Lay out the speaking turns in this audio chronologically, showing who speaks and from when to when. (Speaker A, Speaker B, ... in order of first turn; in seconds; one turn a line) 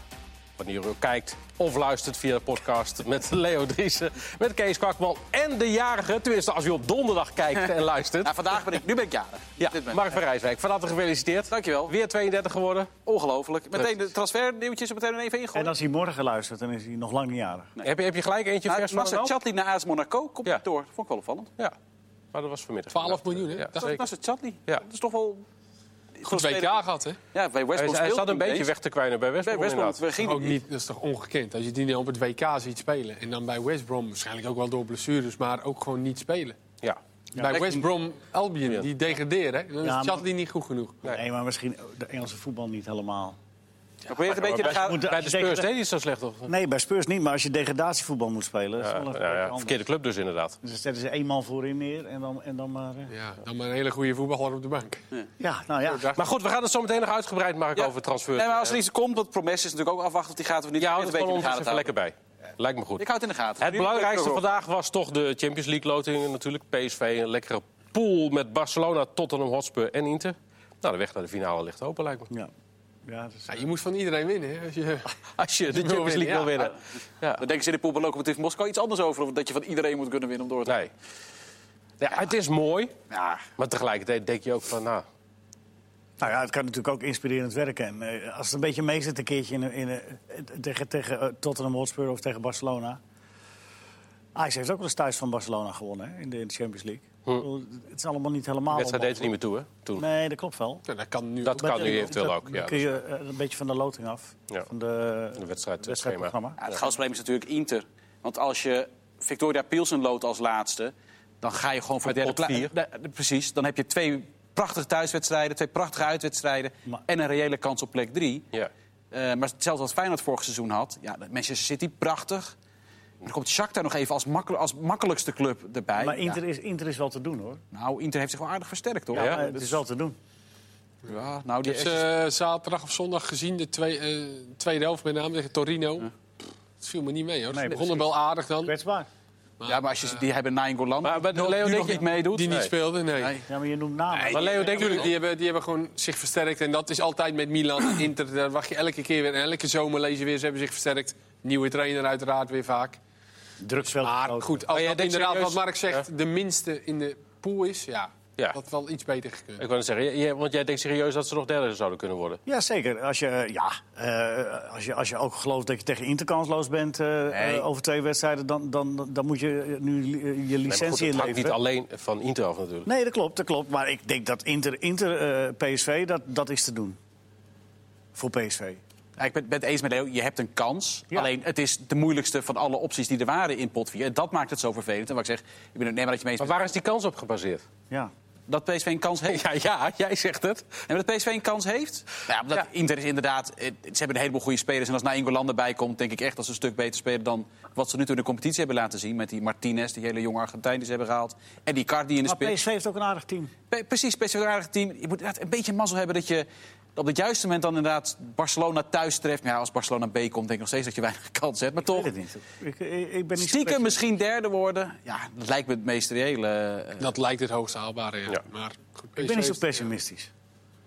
Speaker A: 0.6-8.7
Speaker B: 8.2-10.0
Speaker A: 9.8-12.9
Speaker B: 11.5-11.9
Speaker B: 13.0-15.7
Speaker C: 15.5-17.7
Speaker A: 17.8-19.3
Speaker B: 18.6-21.5
Speaker A: 22.3-23.9
Speaker D: 22.9-24.0
Speaker B: 23.8-25.4
Speaker B: 26.2-28.7
Speaker D: 26.2-27.2
Speaker A: 27.7-30.0
Speaker B: 29.4-30.6
Speaker D: 30.2-36.5
Speaker C: 37.4-37.8
Speaker D: 37.4-41.0
Speaker B: 37.5-37.8
Speaker C: 39.8-40.2
Speaker C: 41.0-43.4
Speaker B: 44.1-45.1
Speaker A: 44.3-46.5
Speaker C: 44.5-45.7
Speaker C: 46.5-49.8
Speaker A: 48.8-50.6
Speaker C: 50.6-53.1
Speaker D: 53.1-55.0
Speaker C: 55.4-56.1
Speaker D: 55.9-56.2
Speaker A: 56.1-58.8
Speaker B: 57.8-61.9
Speaker A: 60.8-63.0
Speaker B: 63.0-64.4
Speaker A: 63.6-72.3
Speaker C: 73.0-73.6
Speaker D: 73.5-75.1
Speaker A: 75.3-77.4
Speaker D: 75.7-76.7
Speaker B: 77.4-80.8
Speaker A: 80.7-80.9
Speaker A: 82.0-83.0
Speaker B: 83.1-83.4
Speaker A: 83.6-85.0
Speaker C: 86.2-93.0
Speaker C: 94.3-99.3
Speaker A: 98.7-100.0
Speaker C: 100.0-100.8
Speaker D: 100.9-102.2
Speaker A: 101.4-102.9
Speaker C: 101.6-106.6
Speaker A: 105.4-106.8
Speaker B: 106.6-118.5
Speaker A: 112.0-112.7
Speaker B: 119.1-122.5
Speaker B: 123.2-126.4
Speaker C: 126.0-127.6
Speaker B: 127.7-129.8
Speaker C: 129.1-130.2
Speaker A: 129.2-129.4
Speaker B: 131.0-132.0
Speaker D: 131.6-136.1
Speaker D: 136.8-138.7
Speaker C: 137.5-138.1
Speaker C: 138.6-139.1
Speaker B: 139.6-142.6
Speaker A: 141.0-142.7
Speaker D: 142.1-143.3
Speaker B: 143.2-143.4
Speaker C: 143.5-144.6
Speaker D: 144.1-153.0
Speaker A: 144.3-145.1
Speaker C: 153.6-154.6
Speaker D: 153.9-159.6
Speaker A: 154.7-156.0
Speaker A: 159.6-162.4
Speaker C: 162.4-171.6
Speaker B: 167.3-167.6
Speaker A: 170.7-172.9
Speaker C: 172.8-177.0
Speaker C: 178.1-178.8
Speaker B: 179.2-186.6
Speaker A: 186.4-187.6
Speaker B: 188.5-189.4
Speaker A: 189.3-190.8
Speaker B: 190.8-202.6
Speaker C: 202.2-203.5
Speaker B: 203.7-212.1
Speaker C: 211.8-214.0
Speaker B: 213.4-217.1
Speaker D: 217.0-219.8
Speaker C: 219.2-220.3